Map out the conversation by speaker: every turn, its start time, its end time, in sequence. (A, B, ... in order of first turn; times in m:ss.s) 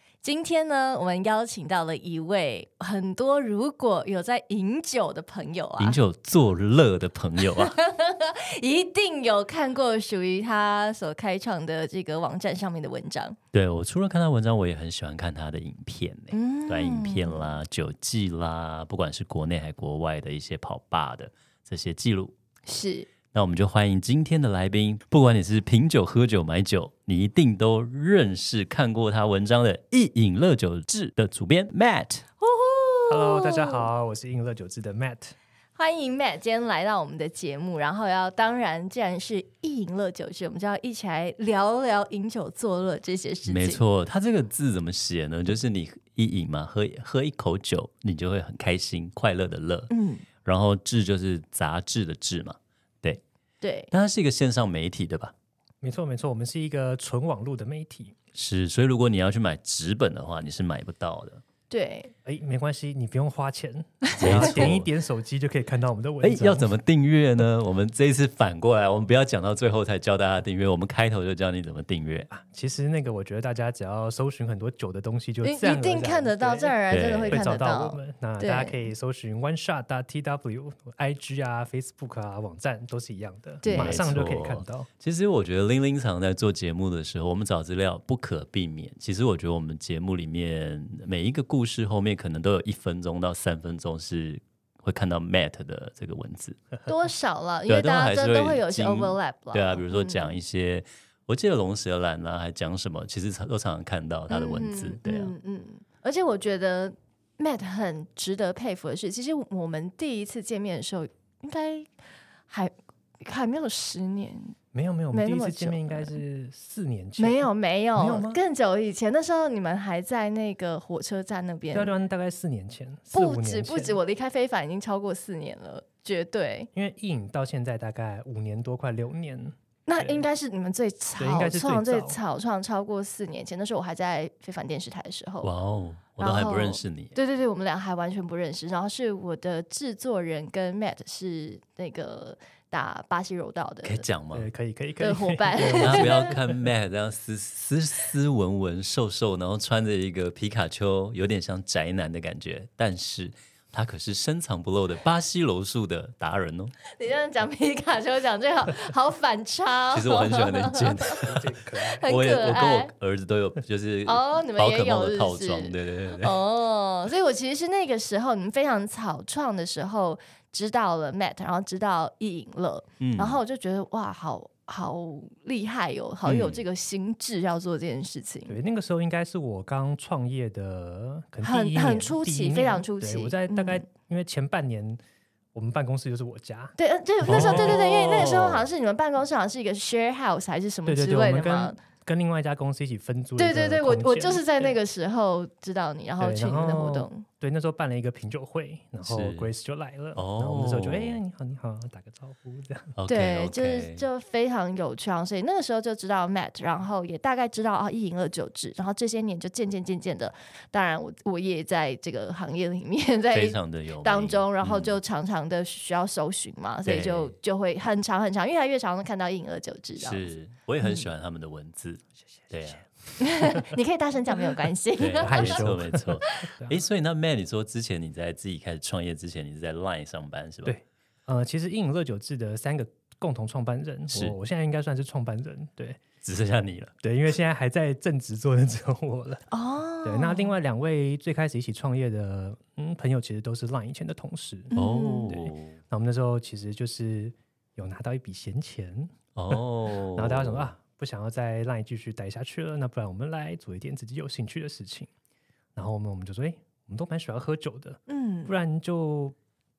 0:00.2-0:06.0 A
0:05.8-0:07.8 B
0:07.4-0:13.4 A
0:13.5-0:22.3 B
0:16.3-0:17.6 A
0:22.6-0:23.1 A
0:23.3-0:32.2 B
0:32.4-0:33.9 A
0:33.1-0:35.3 C
0:35.8-0:43.8 A
0:43.4-0:49.9 B
0:49.9-0:50.2 A
0:50.4-0:53.2 B
0:53.6-0:53.9 A
0:53.9-0:55.3 B
0:55.8-0:58.2 C
0:58.3-1:01.4 B
1:01.7-1:02.1 A
1:02.2-1:06.8 C
1:04.0-1:04.4 A
1:04.2-1:04.9 B
1:06.2-1:12.3 B
1:12.3-1:24.9 C
1:15.4-1:18.9 A
1:16.9-1:17.4 B
1:23.6-1:24.0 A
1:23.7-1:36.7 B
1:36.9-1:40.4 A
1:37.7-1:45.3 B
1:44.3-1:51.9 A
1:52.5-1:54.6 A
1:54.7-1:58.4 C
1:55.1-1:56.2 A
1:57.2-2:02.0 A
2:01.7-2:04.0 C
2:03.1-2:06.7 A
2:06.7-2:10.3 C
2:09.9-2:15.5 A
2:11.2-2:12.2 C
2:15.4-2:17.2 B
2:16.2-2:24.0 A
2:23.8-2:24.5 B
2:24.3-2:26.6 C
2:25.0-2:26.3 A
2:25.8-2:36.7 B
2:36.9-2:42.9 A
2:39.9-2:46.4 B
2:41.2-2:42.0 C
2:44.0-2:58.6 A
2:53.0-2:53.4 B
2:56.2-2:56.6 B
2:58.5-3:05.0 C
3:01.4-3:03.8 A
3:05.5-3:07.7 C
3:06.8-3:11.8 A
3:07.2-3:08.7 B
3:10.8-3:14.7 C
3:13.4-3:17.2 A
3:16.2-3:23.0 C
3:19.0-3:19.5 B
3:20.2-3:21.2 B
3:23.0-3:24.0 B
3:23.0-3:41.1 A
3:33.3-3:35.0 B
3:36.8-3:37.3 B
3:40.0-3:42.8 B
3:43.2-3:46.5 A
3:43.4-3:43.7 C
3:45.0-3:50.8 B
3:45.2-3:46.8 C
3:50.6-3:56.0 C
3:56.2-3:56.9 B
3:57.0-3:59.4 C
3:59.5-4:00.5 A
4:00.0-4:04.7 C
4:04.7-4:05.4 A
4:04.7-4:05.8 B
4:05.2-4:09.6 C
4:09.3-4:10.7 B
4:10.1-4:15.1 C
4:15.8-4:19.4 C
4:18.1-4:18.5 A